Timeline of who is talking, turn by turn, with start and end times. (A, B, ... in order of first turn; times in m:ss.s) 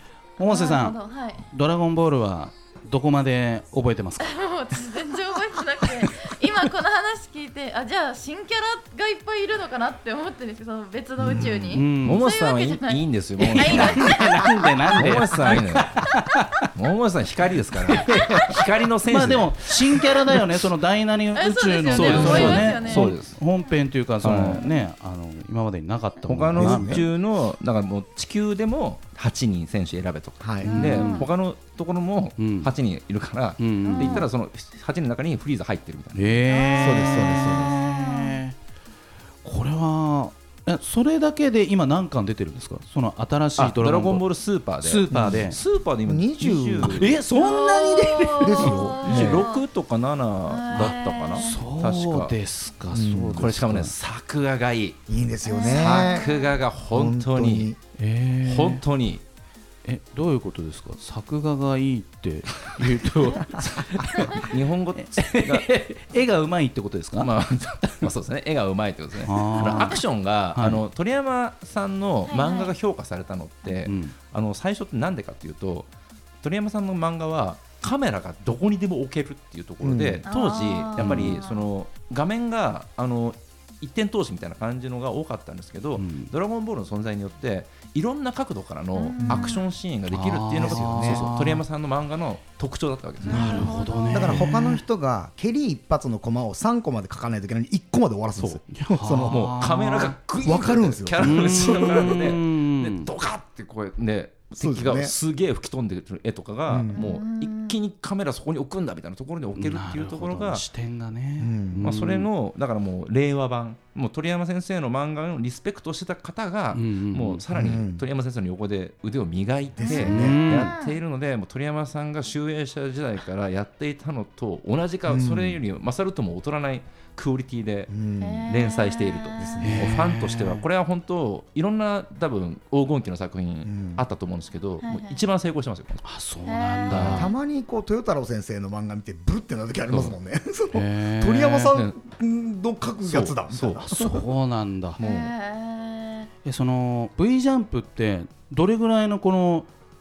0:00.4-0:01.0 A
0:00.4-0:01.5 B
0:01.5-0:04.3 A
0:04.2-0:13.0 B
0:11.2-0:11.7 C
0:11.7-0:12.2 A
0:12.0-0:14.1 D
0:13.4-0:16.7 A
0:13.6-0:15.6 B
0:15.0-0:16.1 D
0:16.7-0:20.0 D
0:17.9-0:27.0 A
0:21.4-0:23.2 B
0:21.9-0:23.4 D
0:24.2-0:24.6 D
0:26.3-0:36.4 D
0:26.6-0:27.1 C
0:30.4-0:30.9 C
0:30.6-0:31.3 B
0:30.7-0:31.3 A
0:32.4-0:32.7 A
0:33.6-0:34.3 A
0:33.8-0:34.3 B
0:36.1-0:38.5 A
0:36.5-0:38.4 B
0:36.8-0:37.7 C
0:39.4-0:44.2 A
0:43.6-0:47.2 D
0:44.8-0:45.6 A
0:45.1-0:45.4 C
0:46.0-0:47.2 C
0:46.8-0:49.4 A
0:47.3-0:49.6 B
0:48.4-0:49.4 C
0:49.0-0:52.3 D
0:50.5-0:51.6 B
0:50.8-0:53.9 A
0:52.9-0:53.5 C
0:53.3-0:55.0 D
0:55.1-0:56.3 C
0:55.4-0:56.6 B
0:55.6-0:57.7 D
0:56.9-0:57.8 C
0:58.0-0:58.8 A
0:58.4-0:59.2 D
0:59.8-1:07.3 A
1:04.2-1:05.7 D
1:07.2-1:15.9 D
1:09.3-1:10.0 A
1:10.6-1:10.8 A
1:12.3-1:12.7 B
1:13.8-1:14.2 A
1:16.4-1:33.8 D
1:19.8-1:20.2 C
1:20.3-1:21.7 B
1:21.0-1:21.4 A
1:26.0-1:26.3 A
1:29.0-1:29.6 B
1:29.2-1:29.5 C
1:30.1-1:31.6 A
1:30.6-1:31.3 C
1:33.2-1:34.5 B
1:33.3-1:34.8 A
1:33.3-1:39.5 C
1:38.4-1:50.6 D
1:38.7-1:40.2 A
1:40.4-1:42.2 C
1:41.2-1:43.1 A
1:44.6-1:45.1 C
1:46.7-1:47.0 C
1:46.9-1:47.8 B
1:49.6-1:52.3 A
1:51.4-1:51.9 C
1:51.8-2:08.0 D
1:56.7-1:57.4 A
1:57.5-1:58.0 C
1:59.8-2:00.4 C
1:59.9-2:00.7 A
2:00.6-2:01.0 B
2:05.1-2:05.6 C
2:07.9-2:08.5 C
2:08.2-2:09.6 B
2:08.5-2:16.0 D
2:09.4-2:09.9 C
2:09.6-2:10.6 A
2:13.7-2:14.0 C
2:14.8-2:15.2 B
2:16.0-2:17.3 A
2:16.5-2:17.2 B
2:16.9-2:17.3 D
2:17.1-2:24.2 C
2:19.9-2:20.2 D
2:20.7-2:21.8 A
2:23.1-2:24.2 D
2:23.8-2:25.0 A
2:25.0-2:26.3 B
2:25.0-2:25.3 D
2:26.4-2:29.7 A